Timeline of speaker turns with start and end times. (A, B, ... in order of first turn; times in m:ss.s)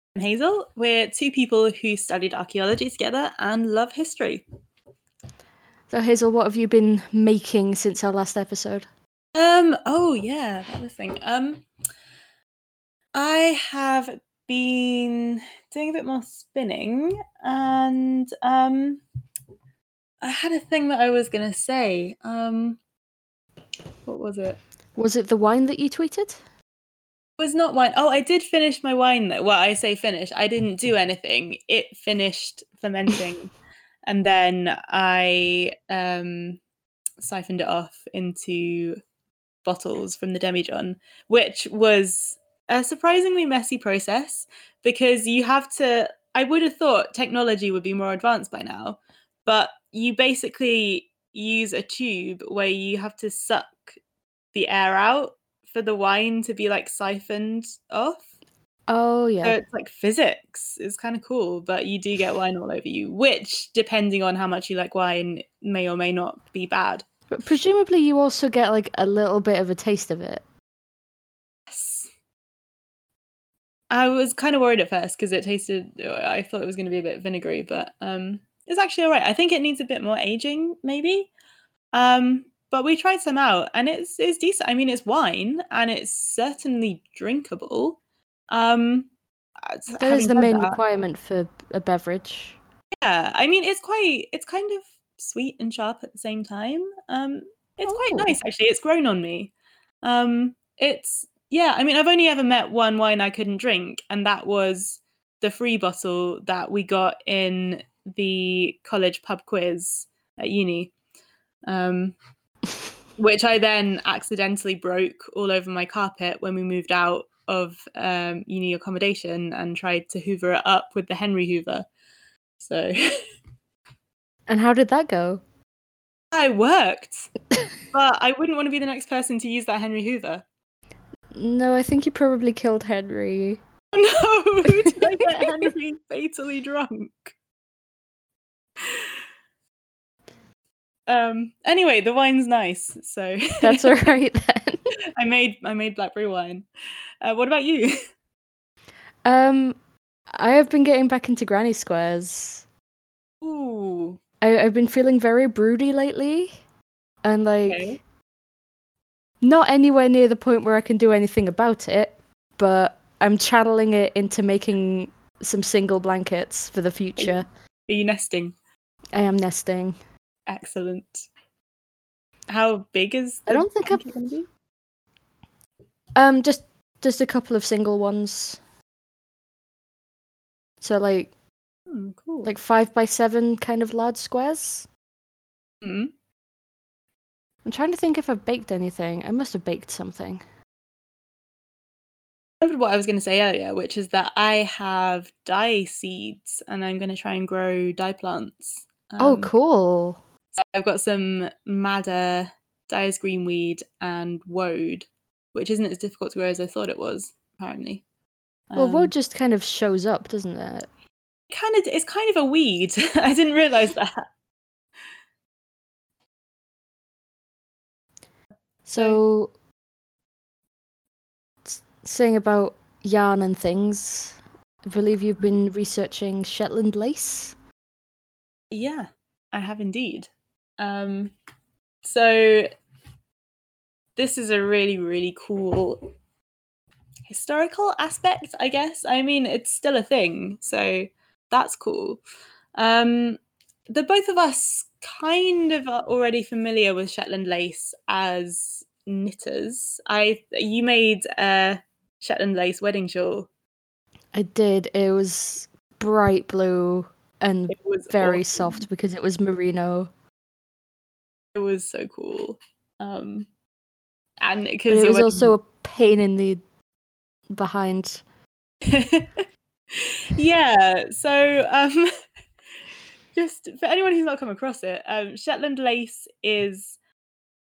0:00.2-0:04.4 A
0:05.9-0:08.9 B
0:09.4-0:11.6 A
0:13.2-0:19.0 A
0:20.2-0:22.8 A
0:24.1-0:24.6 A
0:25.0-0:26.4 B
0:27.4-0:33.5 A
0:34.1-0:36.6 A
0:37.2-0:39.0 A
0:39.6-0:54.0 A
0:54.5-0:58.3 A
0:58.9-0:59.6 B
0:59.4-1:07.0 A
1:07.3-1:10.4 B
1:11.7-1:12.1 A
1:13.9-1:21.3 A
1:21.9-1:28.0 A
1:28.5-1:29.1 A
1:29.7-1:30.8 A
1:30.0-1:32.6 B
1:33.0-1:39.5 A
1:37.9-1:38.3 B
1:40.0-1:50.9 A
1:51.7-1:52.2 A
1:53.2-2:01.9 A
2:02.6-2:03.2 A
2:04.5-2:05.4 B
2:06.3-2:07.3 A
2:07.9-2:10.4 A
2:11.3-2:13.6 B
2:13.9-2:17.4 A
2:18.8-2:19.1 A
2:21.1-2:24.0 A
2:23.6-2:24.8 B
2:25.2-2:26.6 A
2:27.2-2:28.0 A
2:29.2-2:29.8 B
2:30.3-2:32.7 B
2:33.4-2:34.2 A
2:34.4-2:36.5 B
2:37.2-2:38.0 B
2:37.7-2:38.0 A
2:39.4-2:47.5 B
2:47.2-2:48.6 A
2:49.1-2:50.0 B
2:50.5-2:51.3 A
2:52.5-2:54.5 A
2:53.5-2:54.0 B
2:56.2-2:58.6 B
3:00.8-3:01.3 B
3:01.9-3:02.5 A
3:02.4-3:04.9 B
3:05.8-3:06.1 A
3:07.6-3:10.4 B
3:12.6-3:19.5 A
3:19.2-3:20.2 B
3:20.6-3:28.0 A
3:28.7-3:29.1 A
3:28.8-3:30.9 B
3:31.5-3:34.2 A
3:38.9-3:39.5 B
3:41.6-3:47.6 B
3:48.7-3:51.3 A
3:52.0-3:52.7 A
3:54.2-3:56.1 A
3:57.3-4:02.2 A
4:02.8-4:03.4 A
4:03.9-4:13.5 A
4:14.3-4:20.1 B
4:17.7-4:18.8 A
4:21.5-4:23.5 A
4:24.4-4:25.6 A
4:24.9-4:26.6 B
4:27.5-4:28.2 B
4:28.9-4:32.1 A
4:33.3-4:37.0 A